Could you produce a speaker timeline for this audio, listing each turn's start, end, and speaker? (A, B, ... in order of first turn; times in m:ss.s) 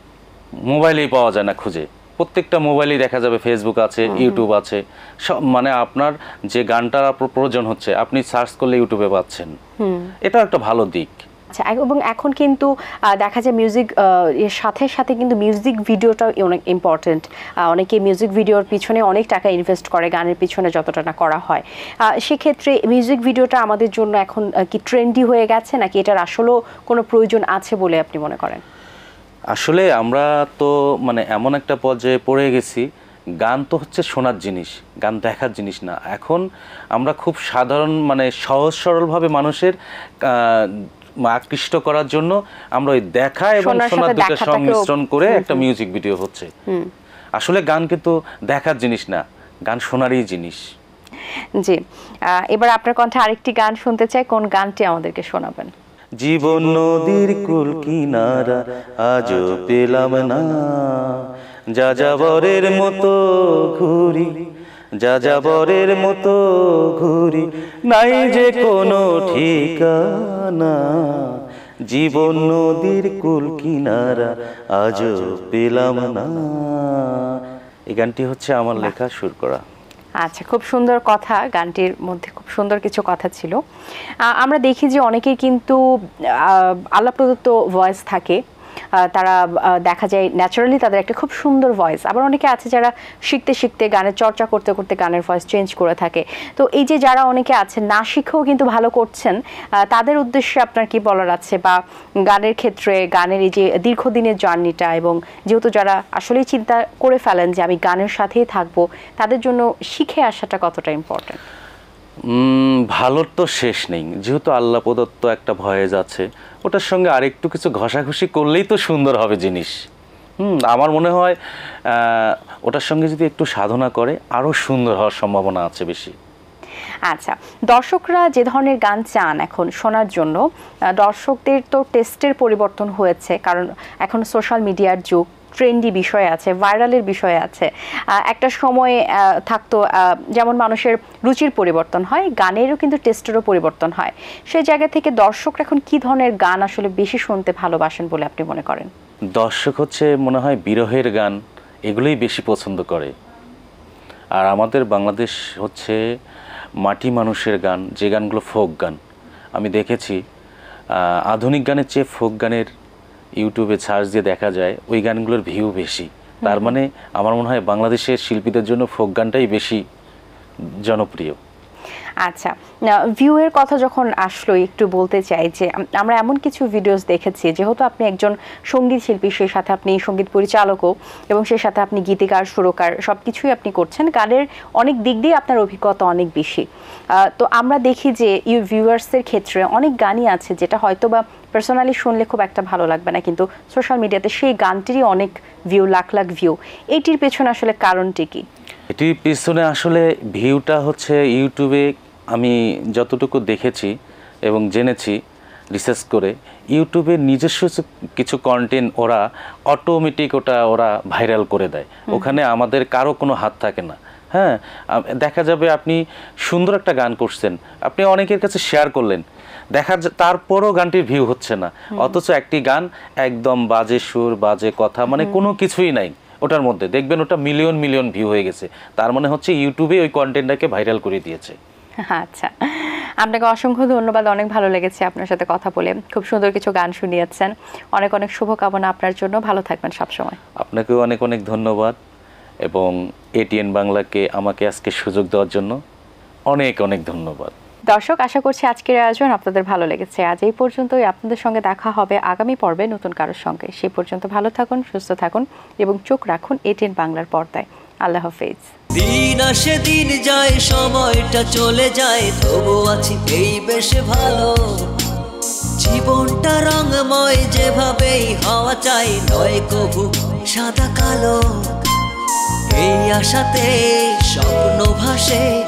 0:00.7-0:09.5 A
0:04.0-0:04.4 B
0:09.8-0:10.1 B
0:10.2-0:11.1 A
0:11.5-0:21.6 B
0:22.2-0:28.6 B
0:29.5-0:32.8 A
0:33.4-0:36.4 A
0:36.9-0:40.7 A
0:41.3-0:46.5 A
0:43.6-0:45.6 B
0:47.4-0:50.6 A
0:52.4-0:55.7 B
0:56.2-1:01.2 A
1:01.8-1:04.3 A
1:05.0-1:17.4 A
1:17.9-1:19.6 A
1:20.2-1:23.6 B
1:24.3-1:25.8 B
1:26.4-1:28.4 B
1:29.0-1:39.4 B
1:39.9-1:41.8 B
1:42.3-1:51.4 B
1:52.3-1:59.7 A
2:00.4-2:01.4 A
2:01.9-2:06.1 A
2:07.1-2:10.4 B
2:11.0-2:17.7 B
2:18.2-2:28.9 B
2:29.4-2:33.1 A
2:34.4-2:36.0 A
2:36.8-2:39.0 A
2:39.6-2:40.2 A
2:41.0-2:42.7 A
2:43.4-2:49.8 A
2:46.4-2:46.8 B
2:50.8-2:51.4 A
2:52.2-2:52.5 B
2:53.2-3:06.6 B
3:07.2-3:18.4 B
3:18.9-3:23.9 A
3:24.5-3:25.2 A
3:25.7-3:51.6 A
3:32.1-3:32.4 B
3:45.1-3:45.4 B
3:52.0-4:00.4 B
4:00.6-4:02.0 A
4:02.6-4:05.8 A
4:06.5-4:07.5 A
4:07.9-4:18.7 B
4:18.9-4:25.1 C
4:25.8-4:31.8 C
4:32.7-4:35.5 C